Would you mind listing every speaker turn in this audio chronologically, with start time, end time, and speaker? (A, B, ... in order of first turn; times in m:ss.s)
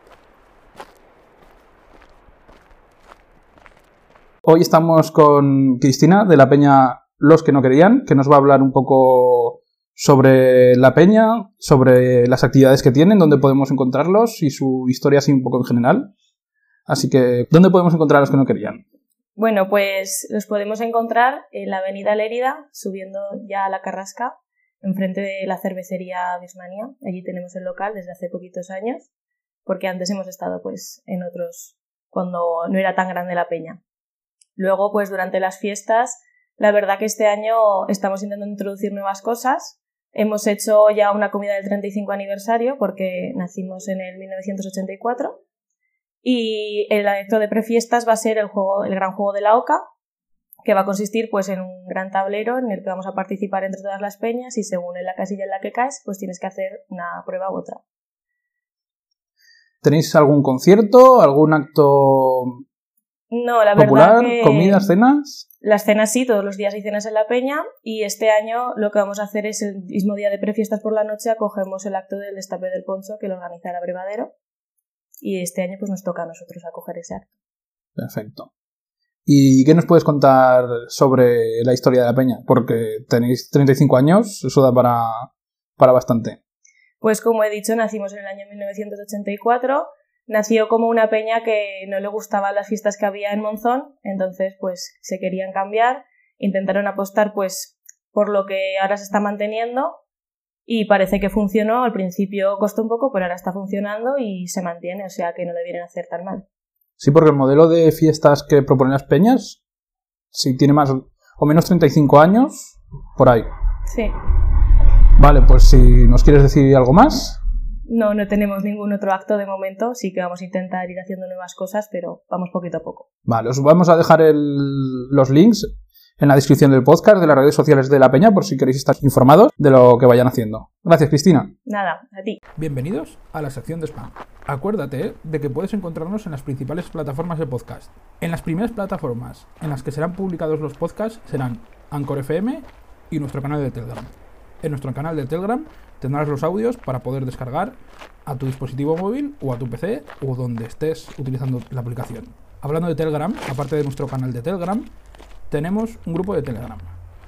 0:04.4-0:16.1 A
0:16.9-0:18.8 A
0:19.4-0:29.1 B
0:29.6-0:33.8 B
0:34.6-0:45.4 B
0:46.2-0:49.8 B
0:50.6-0:57.8 B
0:59.8-1:02.6 A
1:03.3-1:04.9 B
1:03.8-1:05.4 A
1:05.6-1:14.3 B
1:15.2-1:17.3 B
1:18.0-1:18.5 A
1:19.3-1:26.4 A
1:27.0-1:40.0 B
1:40.7-1:46.4 B
1:47.0-1:49.6 A
1:50.3-1:53.5 A
1:53.9-1:54.2 B
1:55.2-1:57.4 A
1:57.9-2:03.1 B
2:03.2-2:05.7 A
2:06.2-2:11.5 A
2:11.7-2:12.4 B
2:12.6-2:34.9 A
2:35.5-2:37.0 A